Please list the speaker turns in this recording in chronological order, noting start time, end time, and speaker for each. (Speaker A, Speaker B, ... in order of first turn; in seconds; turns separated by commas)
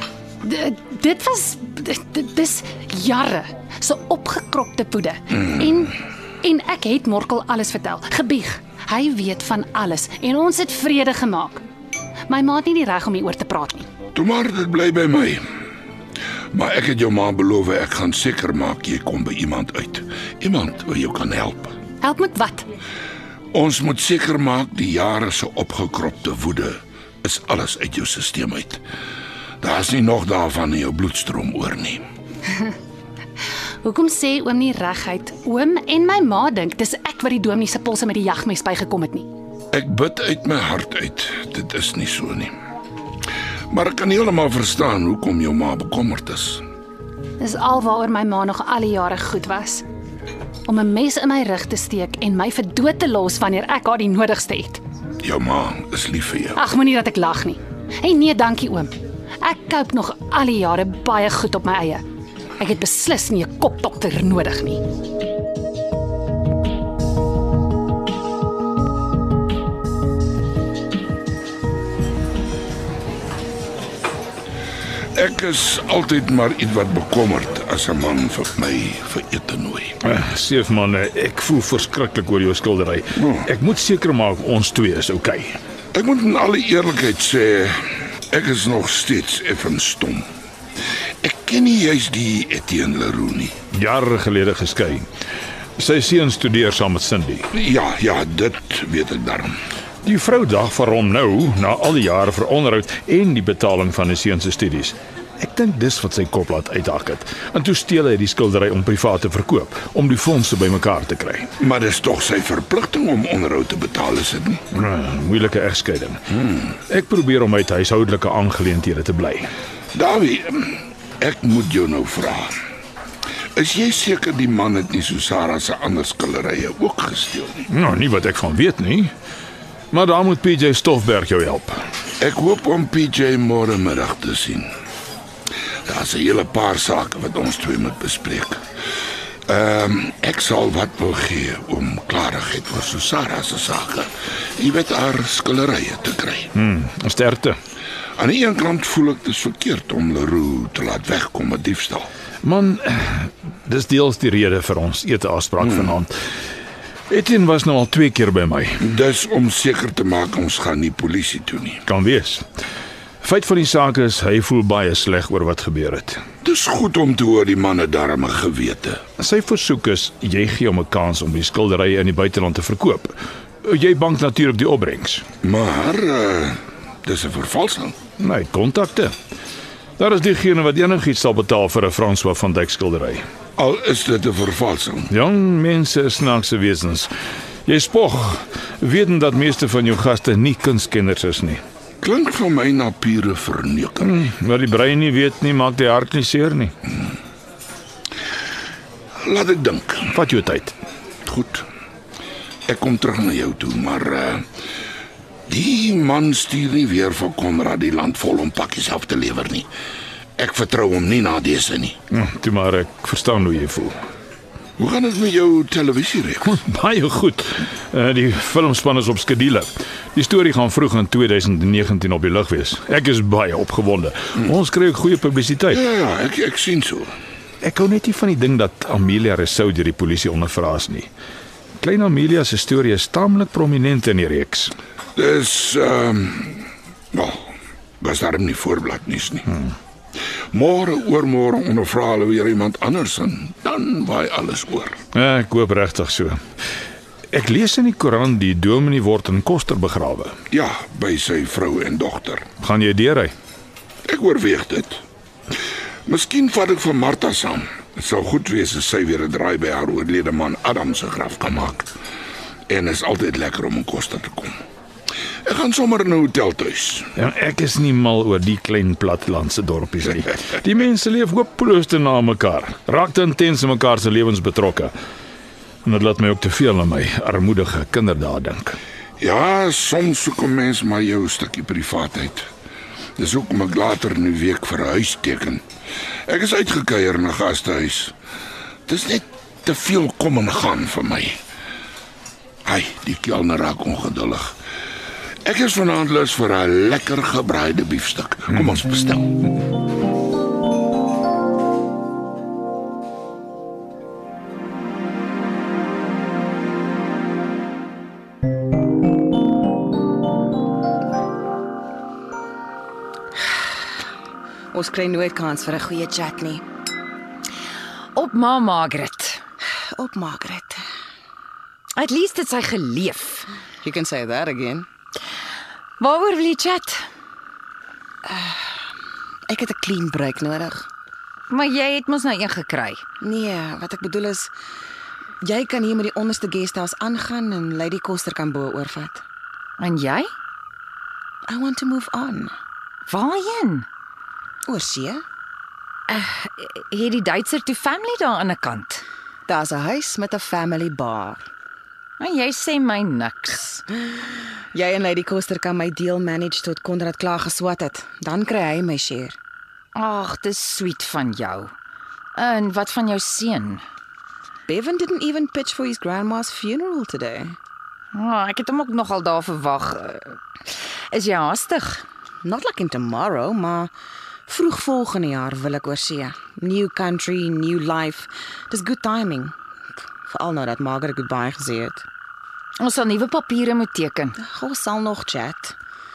Speaker A: 0.4-11.6, Speaker A: 12.3-13.9, Speaker B: 14.1-15.4, Speaker B: 16.5-21.7, Speaker A: 22.0-22.6, Speaker B: 23.5-28.8, Speaker B: 29.6-32.0, Speaker A: 33.8-39.3, Speaker B: 39.7-42.5, Speaker B: 43.7-46.6, Speaker A: 47.4-49.8, Speaker A: 50.7-54.8, Speaker B: 55.2-56.6, Speaker A: 56.5-62.0, Speaker A: 62.6-64.8, Speaker B: 75.1-80.0, Speaker C: 80.0-85.6, Speaker B: 83.2-83.5, Speaker B: 85.9-87.8, Speaker B: 88.3-90.2, Speaker B: 91.2-93.6, Speaker C: 93.7-95.0, Speaker C: 95.8-97.5, Speaker B: 97.5-99.6, Speaker C: 100.0-111.5, Speaker B: 111.6-114.6, Speaker C: 114.7-116.3, Speaker B: 116.4-116.7, Speaker C: 116.9-119.5, Speaker B: 119.9-122.5, Speaker B: 123.5-127.7, Speaker C: 127.7-129.1, Speaker C: 129.9-131.8, Speaker B: 132.2-134.7, Speaker B: 135.9-138.6, Speaker B: 139.5-146.5, Speaker C: 146.5-147.6, Speaker B: 148.2-152.1, Speaker C: 152.4-156.1, Speaker B: 155.6-155.9, Speaker C: 157.1-158.8, Speaker B: 158.8-161.8, Speaker C: 161.8-162.4, Speaker C: 163.2-166.2, Speaker B: 166.4-169.0, Speaker C: 169.2-175.2, Speaker B: 175.4-178.0, Speaker C: 178.2-179.1, Speaker C: 180.0-183.2, Speaker B: 183.6-185.1, Speaker C: 185.1-187.1, Speaker C: 187.7-191.6, Speaker B: 192.0-194.2, Speaker C: 194.0-196.7, Speaker B: 199.2-200.2, Speaker C: 200.1-200.7, Speaker B: 201.2-201.7, Speaker B: 202.7-204.4, Speaker B: 205.5-209.7, Speaker B: 210.4-212.0, Speaker C: 212.1-213.9, Speaker B: 214.8-216.6, Speaker C: 216.4-225.8, Speaker B: 225.7-227.1, Speaker C: 227.6-231.1, Speaker C: 231.8-234.7, Speaker B: 235.2-239.5, Speaker B: 240.5-245.0, Speaker C: 245.1-246.4, Speaker C: 247.3-250.3, Speaker B: 250.5-252.5, Speaker C: 252.6-253.3, Speaker B: 254.1-255.0, Speaker B: 256.1-261.9, Speaker B: 262.7-264.5, Speaker B: 265.4-267.1, Speaker C: 267.1-274.9, Speaker C: 275.8-278.8, Speaker B: 279.2-282.5, Speaker B: 283.2-285.6, Speaker B: 286.3-288.1, Speaker B: 288.9-291.4, Speaker B: 292.6-294.5, Speaker B: 295.4-299.4, Speaker D: 314.7-316.6, Speaker E: 318.1-319.4, Speaker D: 319.9-320.8, Speaker E: 322.0-323.5, Speaker D: 323.8-324.9, Speaker E: 326.0-327.0, Speaker D: 328.2-328.8, Speaker D: 329.5-330.8, Speaker E: 331.5-333.0, Speaker D: 333.2-334.5, Speaker D: 335.4-339.2, Speaker E: 339.8-340.3, Speaker D: 341.5-342.5, Speaker E: 343.1-343.9, Speaker D: 344.7-345.2, Speaker E: 346.1-349.0, Speaker D: 349.5-351.4, Speaker E: 352.2-353.8, Speaker D: 354.7-359.4, Speaker E: 359.9-361.7, Speaker E: 362.3-363.8, Speaker D: 364.7-367.6, Speaker E: 368.1-370.4, Speaker E: 371.1-372.0, Speaker D: 372.4-373.9, Speaker D: 374.5-379.5, Speaker D: 380.3-382.1, Speaker E: 382.8-384.4, Speaker D: 384.4-385.7